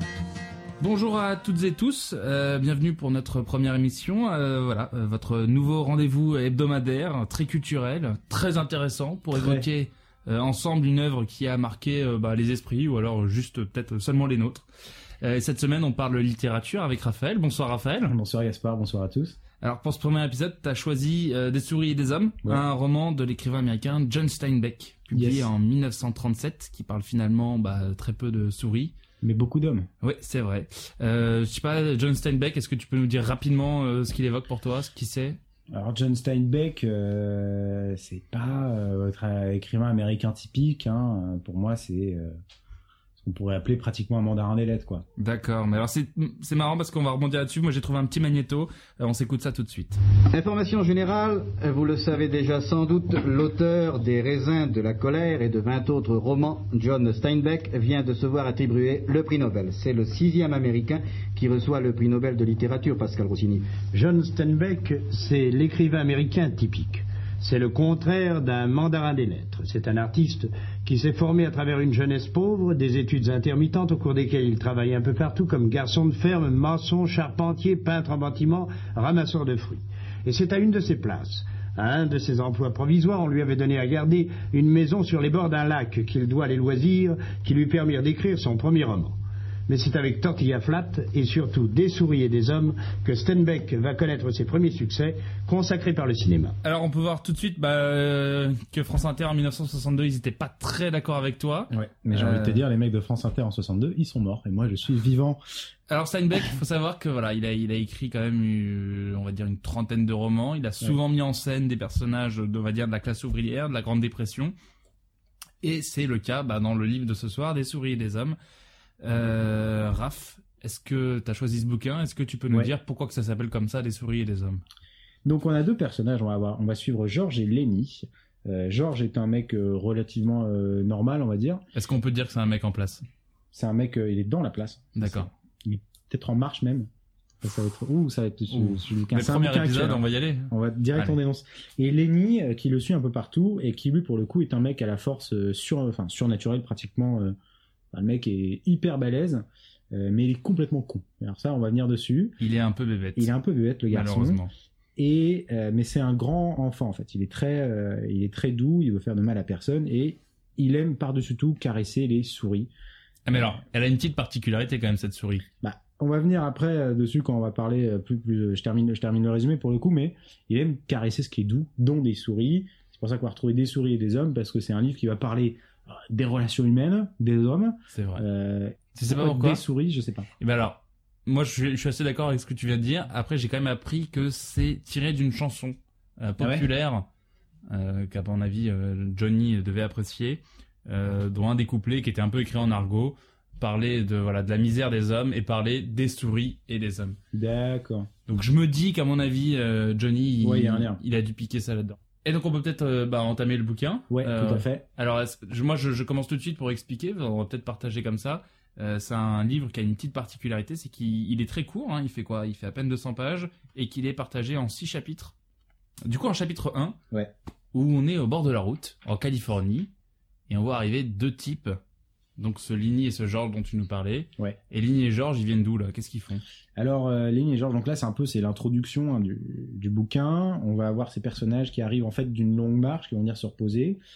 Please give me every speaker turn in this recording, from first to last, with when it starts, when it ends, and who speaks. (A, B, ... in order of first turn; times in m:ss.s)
0:00.8-0:14.7 A
0:09.3-0:09.6 B
0:15.2-0:18.1 A
0:18.1-0:19.4 B
0:19.6-0:28.9 A
0:25.1-0:25.5 B
0:29.2-0:29.9 B
0:30.0-0:35.4 A
0:35.7-0:42.4 B
0:43.2-0:45.0 B
0:45.2-0:50.0 A
0:50.3-1:03.7 C
1:03.9-1:29.2 D
1:29.7-1:36.6 D
1:36.6-1:42.6 A
1:41.7-1:45.4 B
1:45.9-1:54.5 A
1:55.6-1:58.4 A
1:59.0-2:04.6 A
2:05.2-2:11.6 B
2:11.7-2:13.0 A
2:13.5-2:16.9 B
2:14.9-2:15.3 A
2:17.4-2:27.3 B
2:18.5-2:21.1 A
2:27.9-2:32.4 B
2:32.4-2:33.3 A
2:33.2-2:34.4 B
2:33.9-2:34.5 A
2:35.0-2:42.7 B
2:43.2-2:45.4 A
2:45.6-3:00.3 B
2:57.9-2:58.2 A
2:58.9-2:59.6 A
3:00.4-3:07.0 A
3:06.4-3:06.7 B
3:07.7-3:17.2 A
3:17.3-3:18.1 B
3:18.3-3:35.3 A
3:20.4-3:21.0 B
3:24.1-3:24.8 B
3:36.0-3:37.0 A
3:37.7-3:39.9 A
3:40.5-3:41.8 A
3:42.4-3:46.4 A
3:46.8-3:54.0 B